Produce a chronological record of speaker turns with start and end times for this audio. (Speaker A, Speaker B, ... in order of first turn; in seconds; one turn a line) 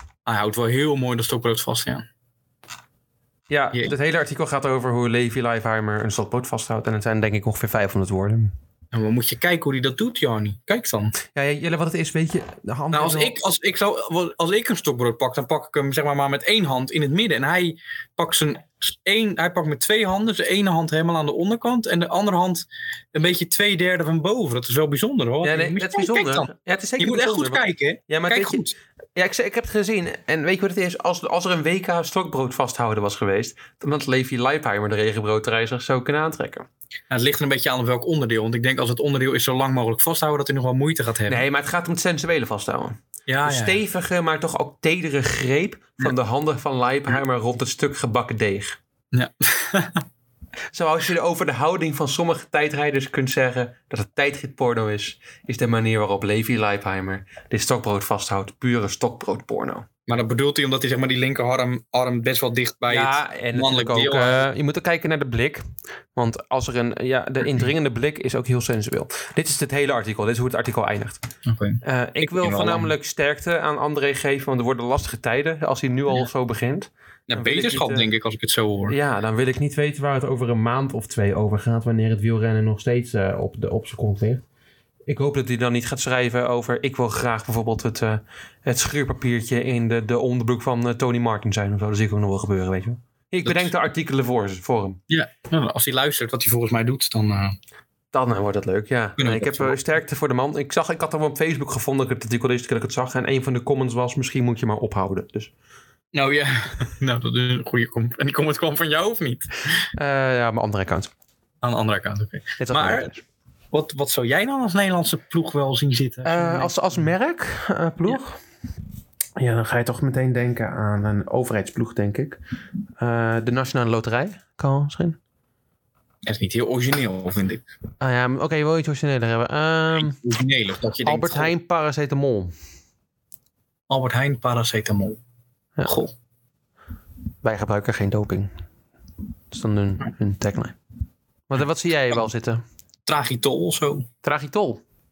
Speaker A: 0.2-2.0
Speaker B: 3.5-8.5
Speaker A: 8.9-11.1
Speaker B: 11.3-13.3
Speaker A: 12.9-28.7
Speaker B: 25.4-28.6
Speaker B: 29.1-36.7
Speaker A: 37.1-41.4
Speaker B: 41.3-48.8
Speaker A: 43.3-43.8
Speaker A: 49.1-50.0
Speaker B: 50.7-59.9
Speaker A: 60.1-64.5
Speaker B: 62.9-71.2
Speaker A: 71.4-72.9
Speaker B: 71.8-78.0
Speaker A: 77.3-78.9
Speaker B: 78.9-84.4
Speaker B: 85.1-95.0
Speaker A: 93.4-93.7
Speaker A: 95.1-97.6
Speaker B: 98.1-105.5
Speaker A: 99.2-99.8
Speaker A: 106.1-109.8
Speaker B: 109.9-111.1
Speaker A: 111.6-113.1
Speaker B: 112.6-113.2
Speaker A: 113.7-116.7
Speaker B: 116.2-118.4
Speaker B: 119.4-122.4
Speaker B: 123.0-125.2
Speaker A: 126.2-127.6
Speaker B: 128.0-130.2
Speaker A: 130.0-131.5
Speaker B: 131.0-132.5
Speaker A: 133.9-135.2
Speaker A: 135.8-136.1
Speaker B: 137.4-138.5
Speaker B: 139.5-140.8
Speaker B: 141.5-142.6
Speaker A: 143.1-144.1
Speaker B: 144.2-144.8